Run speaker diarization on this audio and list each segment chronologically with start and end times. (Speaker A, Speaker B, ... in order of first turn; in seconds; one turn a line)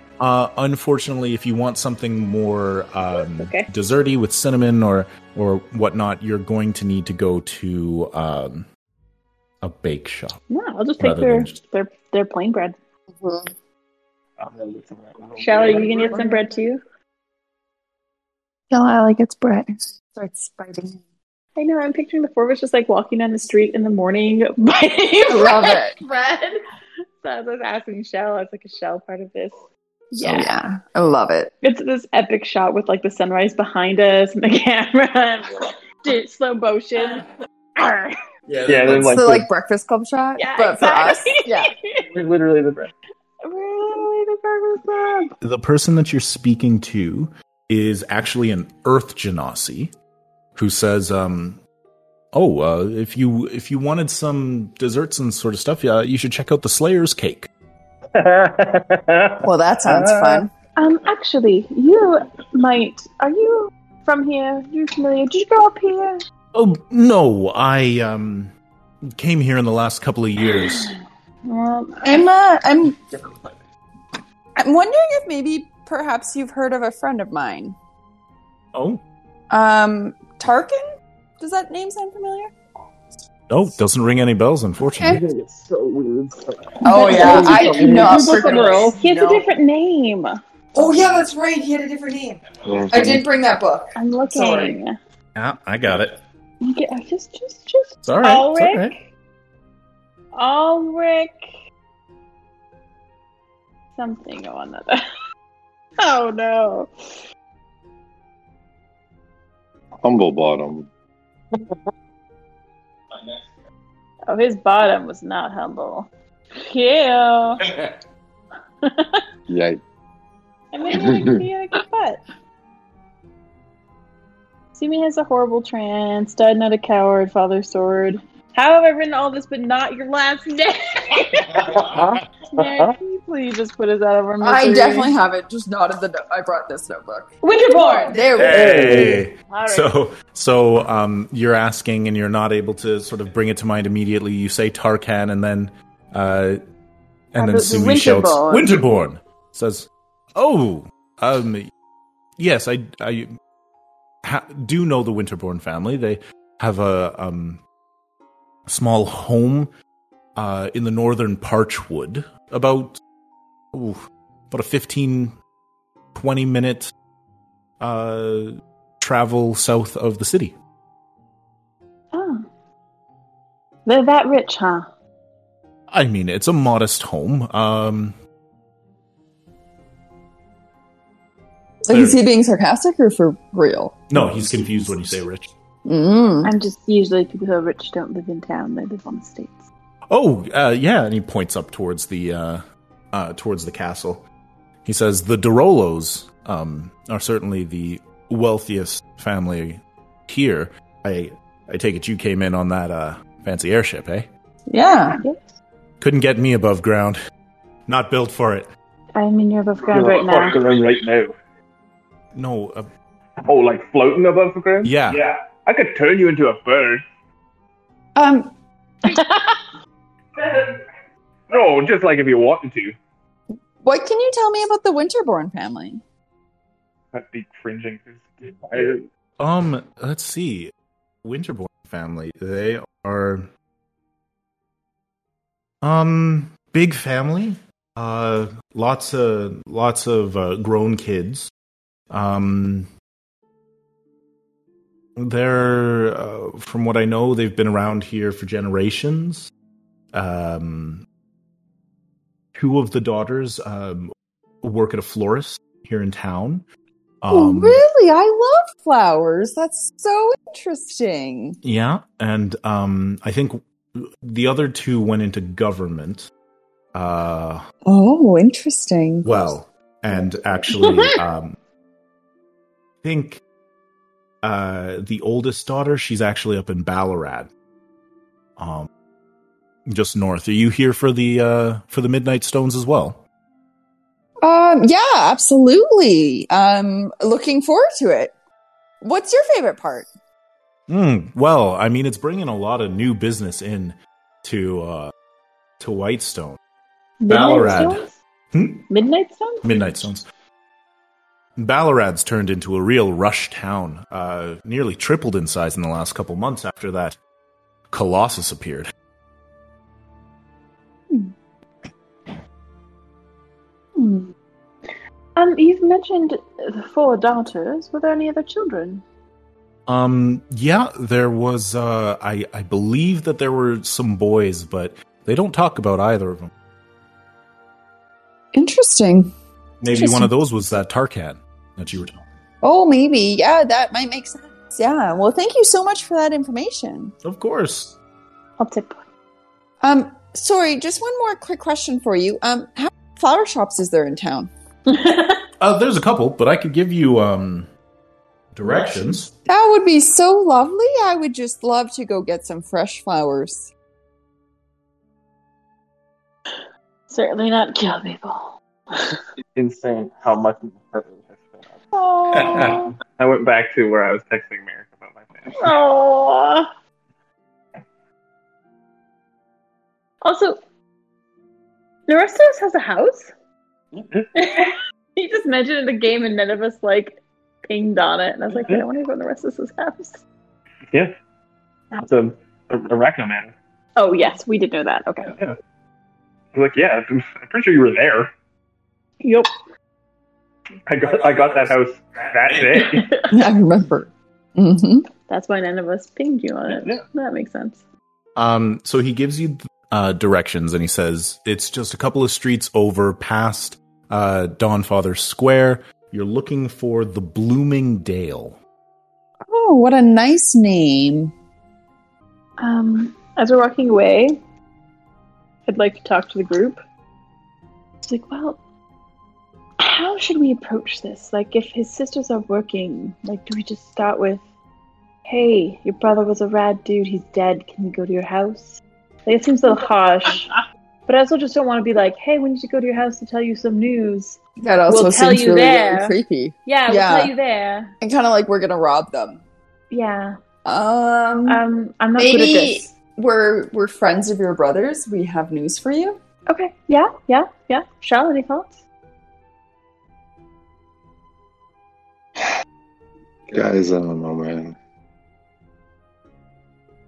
Speaker A: 0.2-8.7
Speaker B: 3.1-3.7
Speaker A: 9.6-10.4
Speaker B: 10.5-12.8
Speaker A: 11.0-11.6
Speaker C: 13.2-13.5
Speaker D: 14.4-16.1
Speaker B: 15.3-16.8
Speaker C: 16.0-16.4
Speaker C: 18.7-21.0
Speaker B: 21.6-26.6
Speaker C: 25.3-25.9
Speaker B: 27.2-30.5
Speaker C: 30.2-31.5
Speaker B: 31.6-37.2
Speaker B: 37.8-38.2
Speaker D: 38.6-39.5
Speaker C: 39.0-41.7
Speaker B: 40.4-42.0
Speaker D: 42.0-42.9
Speaker B: 43.4-45.3
Speaker A: 45.4-49.9
Speaker A: 50.5-51.6
Speaker A: 52.3-57.5
Speaker D: 58.1-60.4
Speaker C: 59.4-60.5
Speaker B: 60.8-66.2
Speaker A: 66.5-68.5
Speaker A: 69.0-70.9
Speaker B: 71.4-72.3
Speaker C: 72.0-73.0
Speaker C: 74.5-77.7
Speaker A: 78.7-79.0
Speaker C: 79.5-80.8
Speaker C: 81.4-82.5
Speaker A: 83.5-85.2
Speaker D: 85.0-89.0
Speaker C: 86.8-89.4
Speaker B: 86.8-90.4
Speaker C: 90.7-94.7
Speaker E: 92.7-93.2
Speaker B: 94.0-94.9
Speaker A: 95.3-96.2
Speaker B: 96.6-99.0
Speaker A: 98.0-98.9
Speaker B: 100.3-101.3
Speaker B: 104.0-105.0
Speaker B: 106.0-106.9
Speaker E: 110.0-110.9
Speaker B: 114.3-117.7
Speaker B: 118.8-119.2
Speaker E: 119.5-119.8
Speaker B: 120.7-122.2
Speaker E: 120.9-121.4
Speaker B: 124.7-131.9
Speaker D: 131.7-132.9
Speaker B: 132.4-135.1
Speaker C: 134.4-139.2
Speaker B: 137.4-138.3
Speaker A: 138.3-146.6
Speaker D: 138.5-139.2
Speaker B: 139.5-139.9
Speaker A: 147.3-151.7
Speaker B: 147.4-148.7
Speaker A: 152.4-153.3
Speaker A: 154.2-157.6
Speaker A: 158.7-159.7
Speaker A: 160.3-163.0
Speaker A: 163.7-165.3
Speaker A: 166.1-166.9
Speaker A: 167.8-170.5
Speaker B: 172.1-172.4
Speaker B: 173.8-174.9
Speaker A: 175.9-178.2
Speaker C: 181.8-184.3
Speaker A: 181.9-182.2
Speaker A: 184.1-185.5
Speaker C: 185.8-186.5
Speaker B: 186.4-189.7
Speaker A: 190.1-194.2
Speaker A: 194.8-204.3
Speaker C: 204.7-205.2
Speaker B: 204.9-205.5
Speaker A: 206.0-207.2
Speaker A: 207.9-208.7
Speaker B: 209.2-210.6
Speaker D: 209.9-211.3
Speaker A: 212.3-212.9
Speaker D: 213.4-217.0
Speaker A: 214.8-215.2
Speaker C: 218.2-218.5
Speaker B: 219.0-219.6
Speaker D: 220.3-220.8
Speaker D: 221.5-222.9
Speaker C: 223.8-226.0
Speaker D: 227.1-229.1
Speaker A: 229.4-230.7
Speaker A: 231.2-233.5
Speaker A: 235.8-241.5
Speaker A: 242.1-242.9
Speaker A: 245.2-249.5
Speaker A: 250.1-251.0
Speaker A: 252.5-256.6
Speaker A: 257.2-257.8
Speaker C: 257.3-261.6
Speaker A: 261.6-266.3
Speaker A: 266.9-267.6
Speaker C: 267.8-269.3
Speaker A: 269.2-271.6
Speaker A: 273.0-273.4
Speaker A: 274.4-277.5
Speaker A: 278.6-278.9
Speaker A: 279.9-283.2
Speaker C: 284.4-288.3
Speaker C: 289.0-290.1
Speaker A: 290.9-295.1
Speaker A: 295.8-296.6
Speaker B: 297.2-298.1
Speaker A: 297.3-298.9
Speaker B: 298.9-299.8
Speaker A: 299.6-300.2
Speaker A: 301.6-307.2
Speaker A: 307.9-308.9
Speaker B: 315.4-319.0
Speaker A: 319.9-326.5
Speaker C: 328.5-329.3
Speaker A: 329.8-332.3
Speaker C: 329.9-330.3
Speaker C: 332.6-337.1
Speaker A: 337.2-338.0
Speaker B: 338.6-339.0
Speaker C: 339.8-344.5
Speaker B: 344.9-345.4
Speaker A: 345.6-347.7
Speaker A: 348.5-349.3
Speaker C: 349.5-353.7
Speaker B: 357.1-359.2
Speaker D: 359.6-361.7
Speaker B: 361.9-362.9
Speaker D: 362.5-365.6
Speaker B: 365.5-366.7
Speaker B: 370.2-370.6
Speaker B: 372.1-373.3
Speaker B: 374.3-380.2
Speaker D: 381.9-383.5
Speaker B: 383.9-385.4
Speaker D: 386.5-388.3
Speaker B: 389.2-389.5
Speaker D: 390.9-393.1
Speaker B: 392.7-393.2
Speaker C: 393.3-395.1
Speaker B: 395.3-397.8
Speaker A: 398.4-408.6
Speaker C: 409.5-411.3
Speaker B: 412.6-414.4
Speaker B: 415.7-416.8
Speaker B: 418.0-418.6
Speaker B: 419.8-424.4
Speaker B: 425.3-430.5
Speaker B: 431.1-437.9
Speaker C: 434.6-437.3
Speaker C: 438.0-439.4
Speaker B: 439.9-440.4
Speaker C: 440.6-441.6
Speaker B: 441.4-442.9
Speaker C: 442.2-446.2
Speaker B: 446.5-448.8
Speaker E: 453.5-454.8